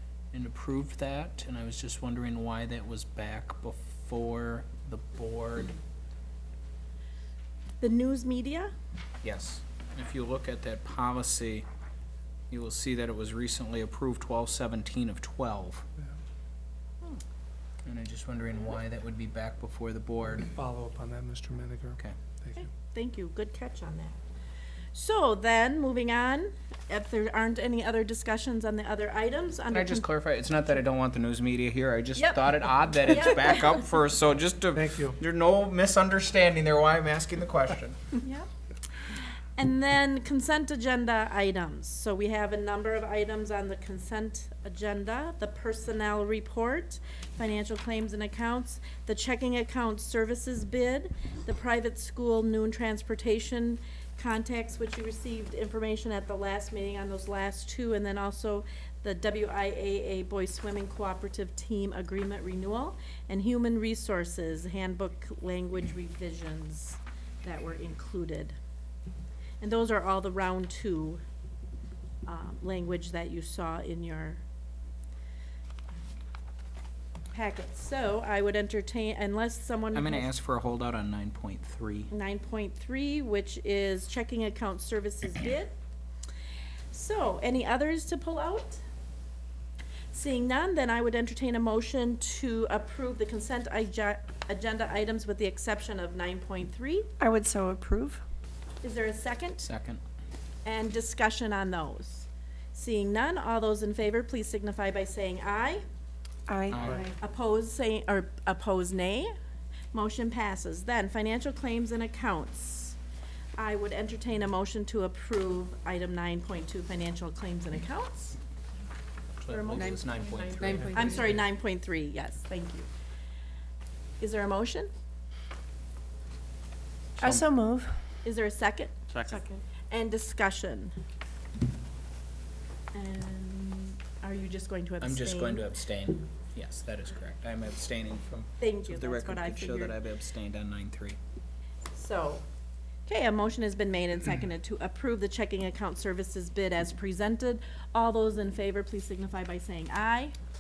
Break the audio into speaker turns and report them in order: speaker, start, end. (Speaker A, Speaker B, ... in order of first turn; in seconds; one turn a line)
Speaker A: 0.3-5.7
Speaker B: 7.8-8.7
Speaker A: 9.2-11.7
Speaker A: 12.5-15.8
Speaker A: 17.8-20.5
Speaker C: 20.5-22.6
Speaker B: 22.5-24.2
Speaker B: 24.9-30.1
Speaker A: 29.7-38.0
Speaker B: 32.1-33.8
Speaker C: 34.8-35.2
Speaker B: 38.2-38.5
Speaker B: 39.6-68.5
Speaker B: 69.6-71.2
Speaker B: 72.2-74.4
Speaker B: 77.3-80.3
Speaker A: 79.9-82.1
Speaker B: 82.1-85.7
Speaker B: 86.9-88.8
Speaker B: 90.1-97.1
Speaker D: 97.2-98.0
Speaker B: 98.8-99.7
Speaker A: 99.6-100.0
Speaker B: 100.6-105.8
Speaker D: 106.5-107.1
Speaker A: 106.7-107.1
Speaker B: 107.2-109.3
Speaker B: 109.9-113.0
Speaker B: 113.6-118.4
Speaker A: 119.4-121.3
Speaker B: 119.5-122.9
Speaker D: 120.6-121.3
Speaker B: 124.2-124.9
Speaker A: 127.2-127.5
Speaker D: 127.2-127.9
Speaker B: 128.2-130.9
Speaker B: 132.9-135.7
Speaker A: 135.0-141.2
Speaker B: 138.6-140.0
Speaker B: 141.9-142.4
Speaker B: 143.1-150.3